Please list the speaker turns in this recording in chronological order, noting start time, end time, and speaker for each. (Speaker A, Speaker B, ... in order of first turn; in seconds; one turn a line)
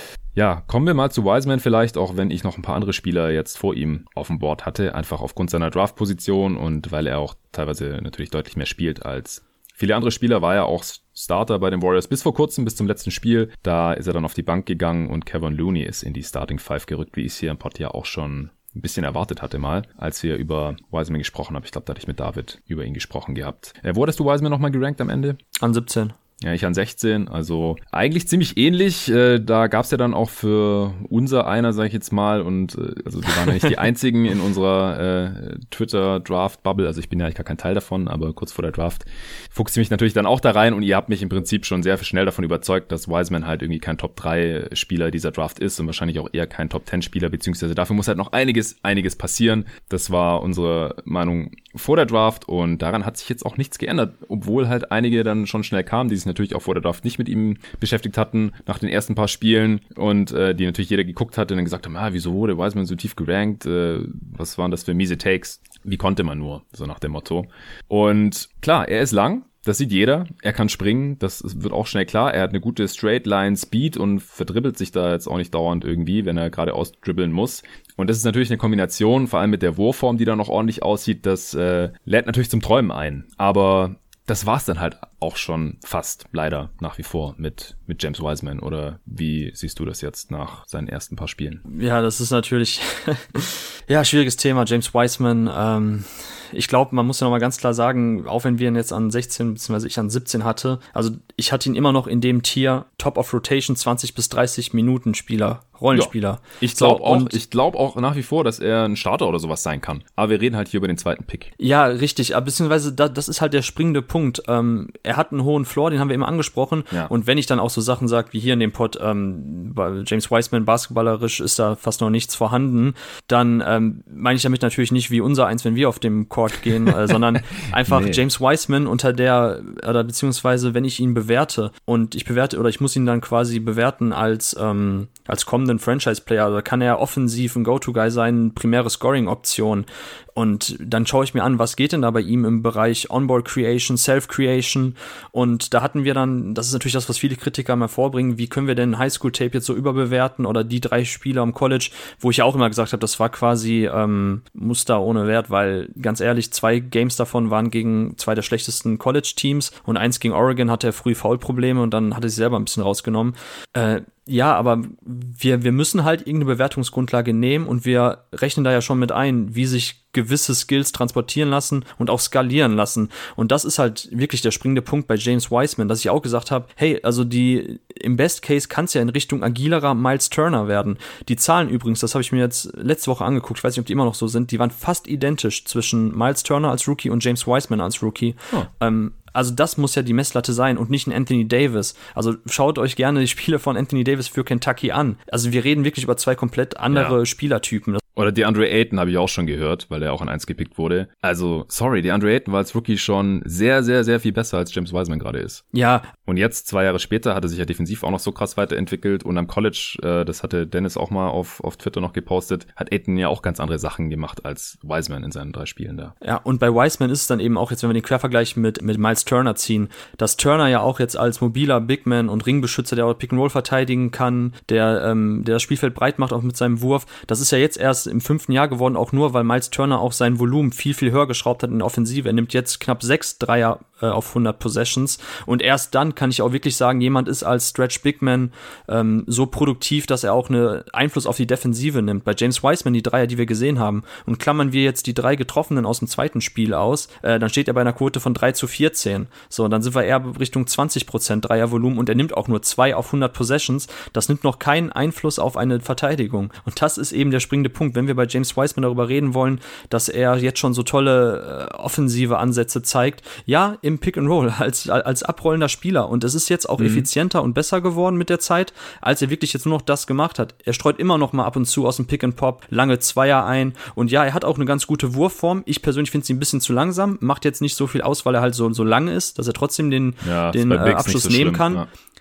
Speaker A: 0.3-25.4
Speaker B: 25.6-26.1
Speaker A: 26.4-91.6
Speaker B: 91.7-107.4
Speaker A: 105.9-111.5
Speaker B: 111.6-198.0
Speaker A: 127.9-128.2
Speaker A: 198.2-205.6
Speaker B: 205.7-206.1
Speaker A: 206.2-216.1
Speaker B: 216.2-281.8
Speaker A: 266.8-267.1
Speaker A: 280.2-281.9